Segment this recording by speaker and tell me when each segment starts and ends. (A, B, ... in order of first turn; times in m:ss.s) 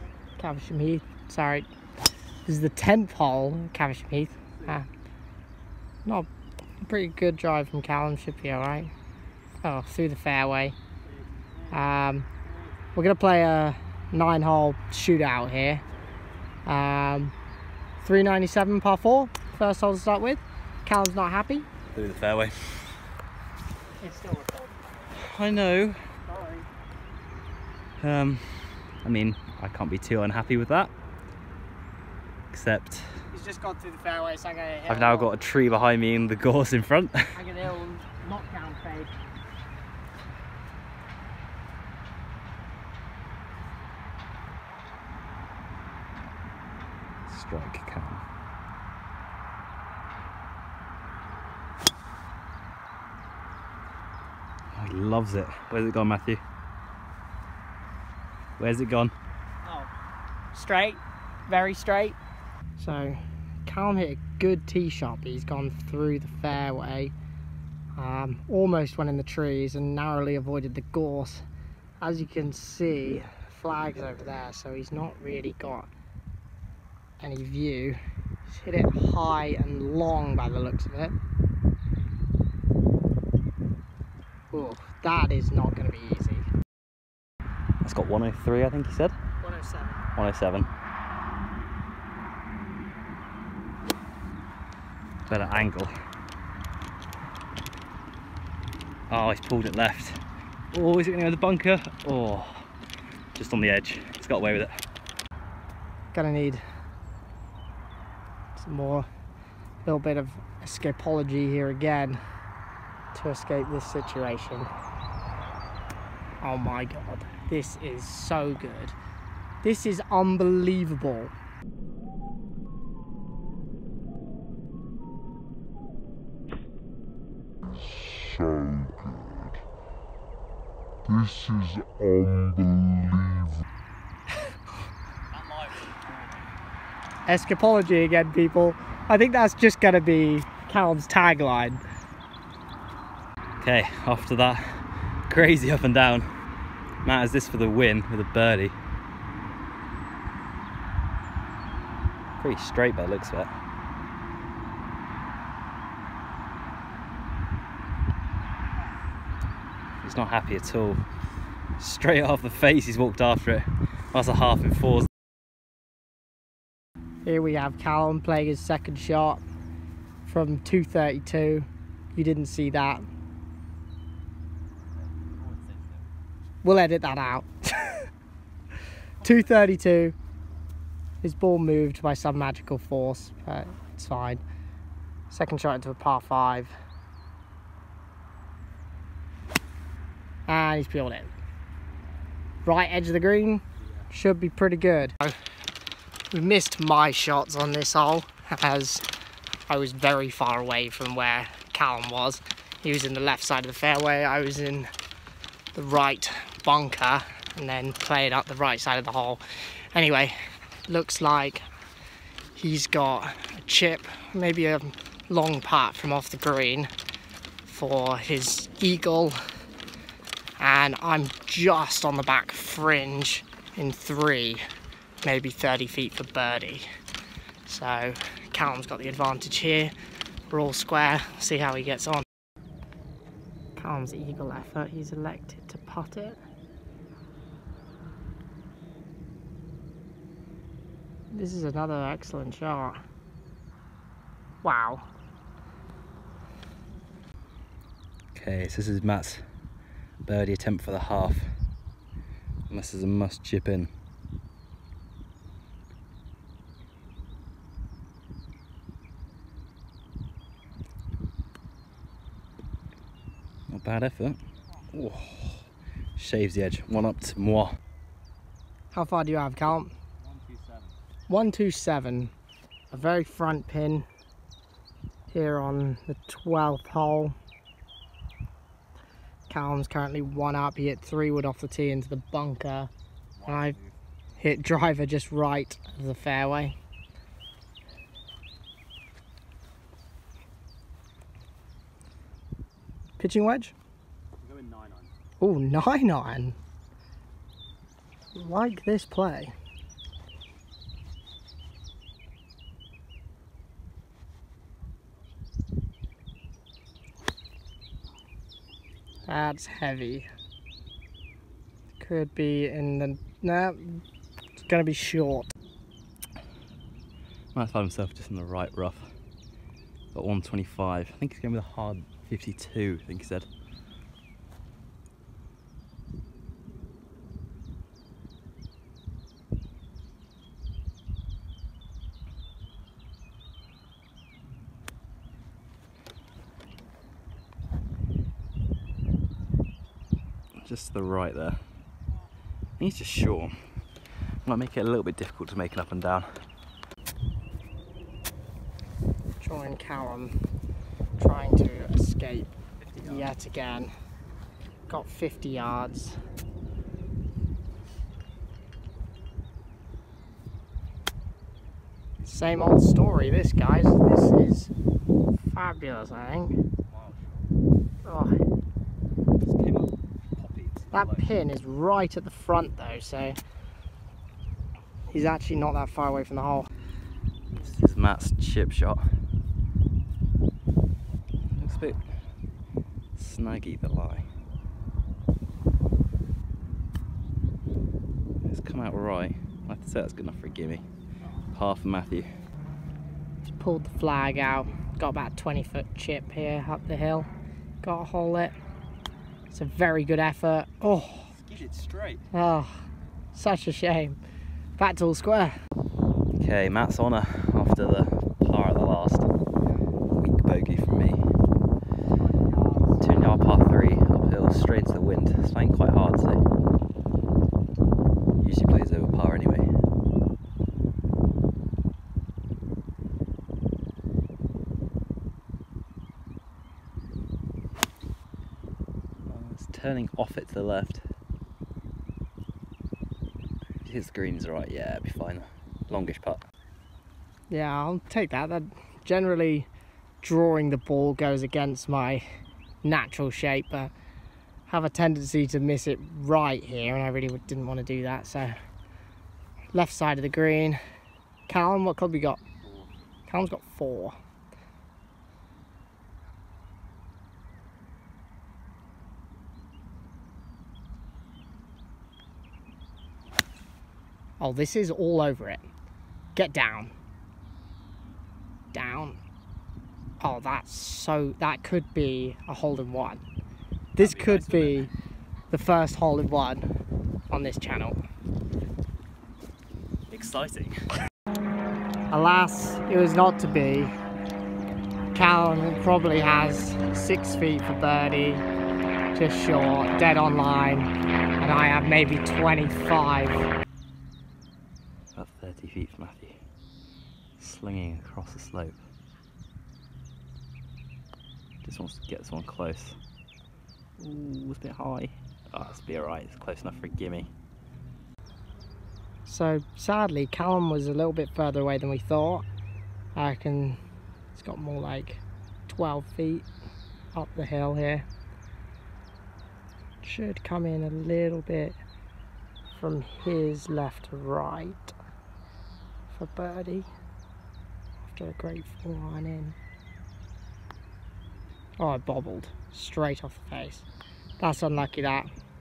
0:00.4-0:01.7 A
0:02.4-0:04.9 A
0:06.8-0:08.9 A
0:09.6-0:10.8 A
0:11.7-0:12.3 A
0:12.9-0:15.8 A
0:16.6-0:17.3 A
0:18.0-0:21.7 A
0:21.9-0:23.0 B
0:24.0-0:24.8 A
0:25.1-0:26.0 B
0:26.3-0:26.6 A
0:28.0-0:30.9 B
0:32.5-0:33.1 B
0:33.3-0:35.4 A
0:34.9-0:37.4 B
0:37.3-0:39.1 A
0:47.3-0:48.2 B
0:54.7-0:56.4 B
0:58.6-0:59.1 B
1:00.5-1:02.2 A
1:02.8-1:07.1 A
1:08.0-1:11.4 A
1:12.0-1:15.9 A
1:17.2-1:21.1 A
1:24.5-1:26.5 A
1:27.8-1:29.1 B
1:29.4-1:30.0 A
1:30.2-1:30.7 B
1:35.3-1:35.9 B
1:39.1-1:40.2 B
1:40.7-1:42.6 B
1:43.4-1:44.7 B
1:46.1-1:46.6 A
1:48.5-1:49.1 A
1:49.8-1:52.2 A
1:53.1-1:54.7 A
1:56.4-1:59.0 A
1:59.6-2:01.3 A
2:08.3-2:09.4 C
2:11.1-2:13.5 C
2:17.3-2:21.8 A
2:23.6-2:26.3 B
2:27.0-2:28.8 B
2:32.4-2:33.5 B
2:40.0-2:41.0 B
2:41.8-2:45.1 B
2:47.2-2:49.4 A
2:50.2-2:53.0 A
2:56.6-2:58.0 A
2:59.2-3:00.1 A
3:01.2-3:04.4 A
3:05.3-3:06.7 A
3:10.5-3:11.3 A
3:12.6-3:15.4 A
3:16.3-3:19.0 A
3:19.7-3:24.9 A
3:25.7-3:29.4 A
3:29.9-3:30.3 A
3:30.9-3:31.6 A
3:32.5-3:36.9 A
3:37.6-3:39.4 A
3:40.6-3:44.6 A
3:45.2-3:46.8 A
3:47.6-3:49.9 A
3:50.5-3:52.2 A
3:53.8-3:56.4 A
4:01.3-4:03.0 A
4:04.6-4:05.1 A
4:08.3-4:09.4 B
4:10.2-4:11.5 B
4:12.7-4:13.9 B
4:23.7-4:24.4 B
4:24.9-4:27.7 B
4:28.9-4:29.9 A
4:30.4-4:30.8 B
4:31.3-4:32.3 A
4:32.9-4:34.0 A
4:35.3-4:37.3 A
4:39.5-4:42.9 A
4:43.4-4:43.9 B
4:43.4-4:43.8 A
4:44.4-4:46.7 A
4:53.2-4:53.7 A
4:54.4-4:55.1 B
4:55.4-4:56.6 A
4:58.3-4:59.5 A
5:09.2-5:10.3 A
5:12.0-5:14.0 A
5:14.6-5:15.5 A
5:17.5-5:19.1 B
5:20.1-5:23.5 B
5:40.6-5:41.6 B
5:42.8-5:43.5 B
5:44.4-5:46.4 B
5:49.4-5:50.3 A
5:51.2-5:53.9 A
5:54.9-5:56.2 A
6:02.2-6:04.7 A
6:05.4-6:06.6 A
6:06.9-6:07.4 B
6:08.0-6:08.4 A
6:09.4-6:11.2 B
6:10.9-6:13.4 A
6:15.1-6:16.7 A
6:17.6-6:19.0 B
6:21.5-6:22.0 B
6:23.2-6:24.2 B
6:28.4-6:30.8 B
6:31.5-6:32.3 B
6:33.5-6:37.3 A
6:37.8-6:38.6 A
6:39.5-6:41.3 A
6:41.4-6:42.2 B
6:42.3-6:44.2 A
6:44.8-6:45.6 A
6:46.4-6:49.3 B
6:50.1-6:51.2 B
6:52.4-6:52.9 A
6:53.0-6:56.4 B
6:58.4-6:59.7 B
7:09.3-7:11.0 B
7:13.8-7:16.4 B
7:17.5-7:19.7 A
7:20.2-7:22.2 A
7:22.8-7:23.9 A
7:24.7-7:28.6 A
7:29.7-7:30.8 A
7:31.5-7:32.4 A
7:33.3-7:34.2 A
7:44.4-7:45.6 A
7:46.3-7:46.9 A
7:48.7-7:49.2 A
7:50.2-7:53.2 A
7:54.0-7:54.9 A
7:54.0-7:54.9 B
7:55.5-7:56.6 A
7:57.3-7:58.0 A
8:00.1-8:00.7 B
8:02.1-8:03.9 A
8:05.1-8:08.4 A
8:09.1-8:13.5 A
8:15.1-8:16.4 B
8:17.4-8:18.8 B
8:21.6-8:23.0 B
8:24.0-8:27.3 B
8:29.2-8:32.4 A
8:33.2-8:33.8 A
8:34.3-8:36.4 A
8:37.1-8:38.0 A
8:40.0-8:41.8 A
8:42.7-8:44.9 A
8:46.1-8:46.9 A
8:48.0-8:49.6 A
8:51.8-8:53.9 A
8:54.4-8:55.3 A